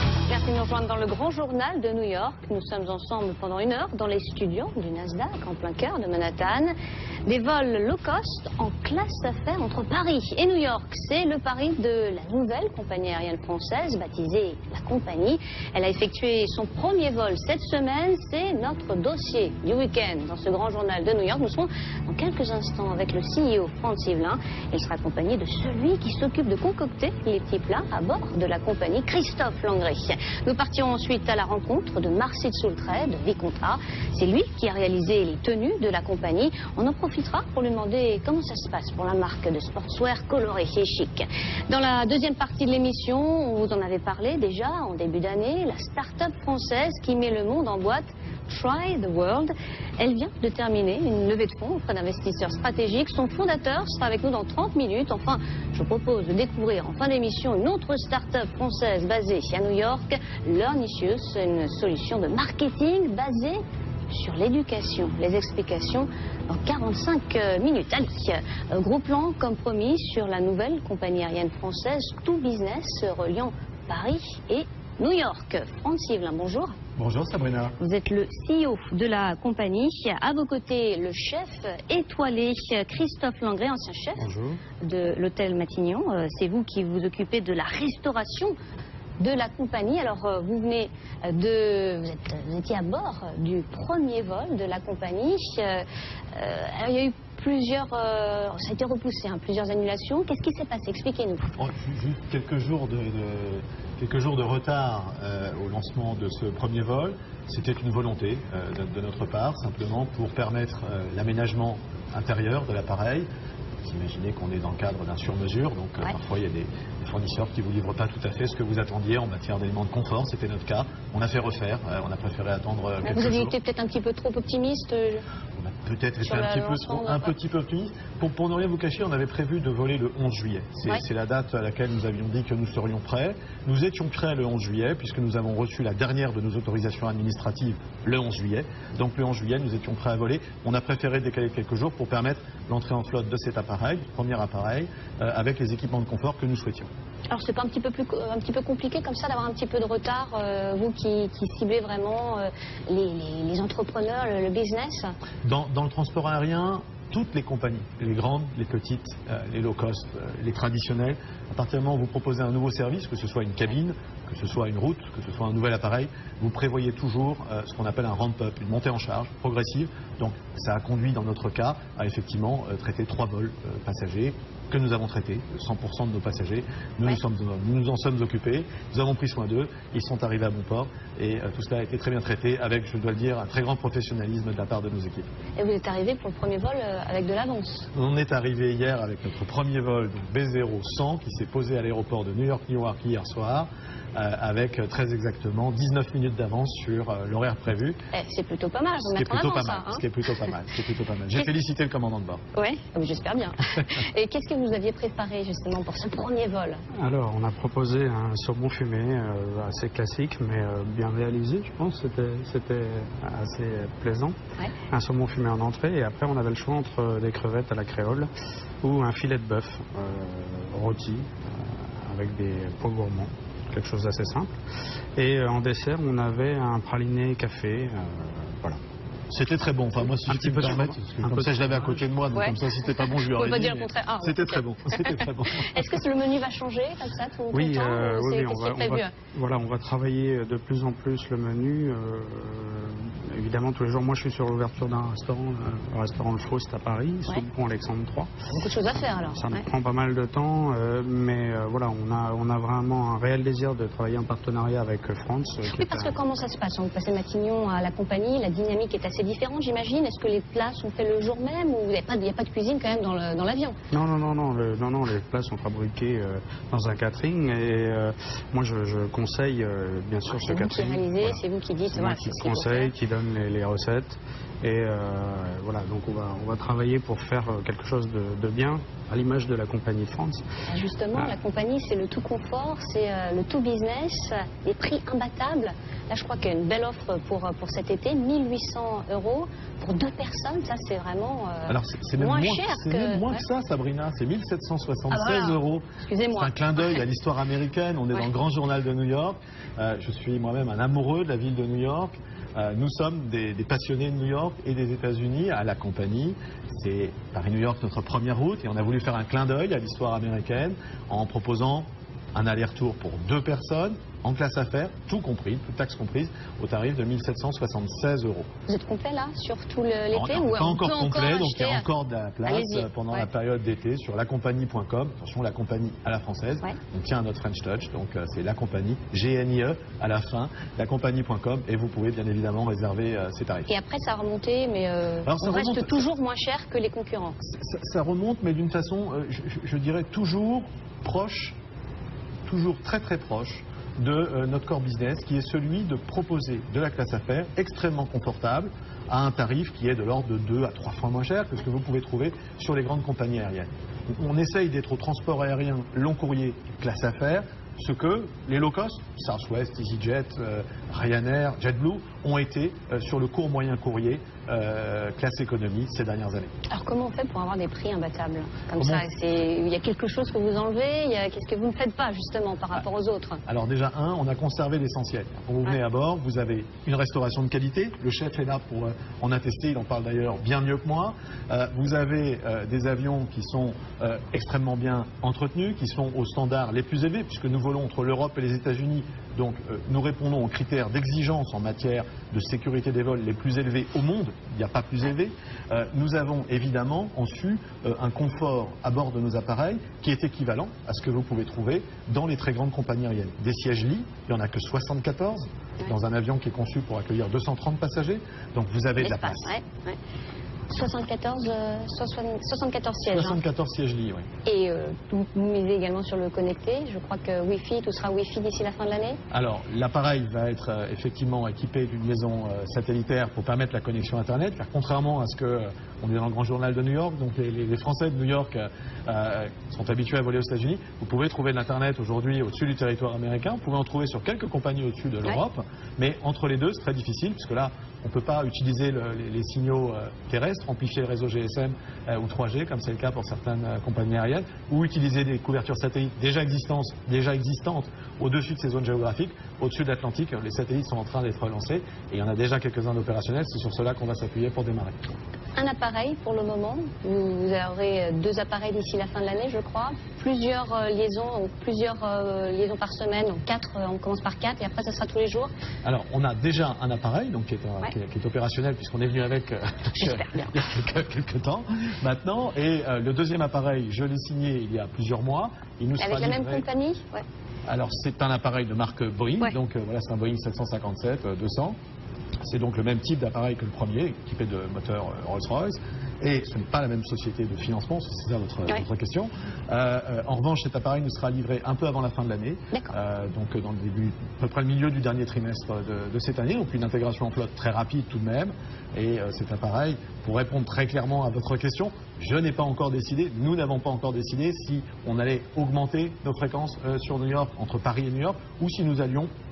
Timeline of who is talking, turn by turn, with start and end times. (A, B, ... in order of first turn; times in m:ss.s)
0:00.3-0:06.7 A
0:07.2-1:16.8 A
1:17.0-1:17.7 B
1:17.8-1:28.6 A
1:24.2-1:24.6 C
1:29.2-1:41.5 A
1:41.6-1:53.3 B
1:53.8-2:03.6 B
2:03.0-2:05.2 A
2:05.6-2:26.9 B
2:06.2-2:07.3 A
2:27.3-2:35.1 A
2:35.4-3:05.3 B
3:05.6-3:07.9 A
3:07.9-3:18.0 B
3:18.1-3:20.0 A
3:19.0-3:22.4 B
3:22.5-3:26.8 A
3:27.0-3:34.4 C
3:34.9-3:38.3 C
3:38.8-3:44.5 C
3:45.2-3:48.8 C
3:49.3-3:56.0 B
3:50.3-3:52.0 C
3:52.3-3:59.1 A
3:57.5-4:08.3 C
4:08.5-4:09.6 A
4:09.3-4:16.2 C
4:15.7-4:23.8 A
4:23.9-4:31.4 C
4:30.3-4:32.9 A
4:31.9-4:40.4 C
4:40.7-4:53.4 A
4:51.7-5:18.5 B
4:55.1-4:56.6 A
5:18.7-5:21.9 A
5:20.1-5:33.7 B
5:22.4-5:23.3 A
5:33.7-5:37.4 A
5:35.2-5:36.0 B
5:37.5-5:41.6 B
5:42.5-6:06.5 B
6:06.7-6:13.4 A
6:08.8-6:09.0 B
6:13.5-6:49.6 B
6:49.0-6:50.0 A
6:50.7-6:53.4 A
6:53.1-6:54.3 B
6:54.4-6:59.2 A
6:59.3-7:35.0 B
7:35.6-7:45.5 A
7:45.8-7:56.7 B
7:50.0-7:50.5 A
7:56.0-7:57.2 A
7:57.7-8:01.8 B
8:02.4-8:29.3 B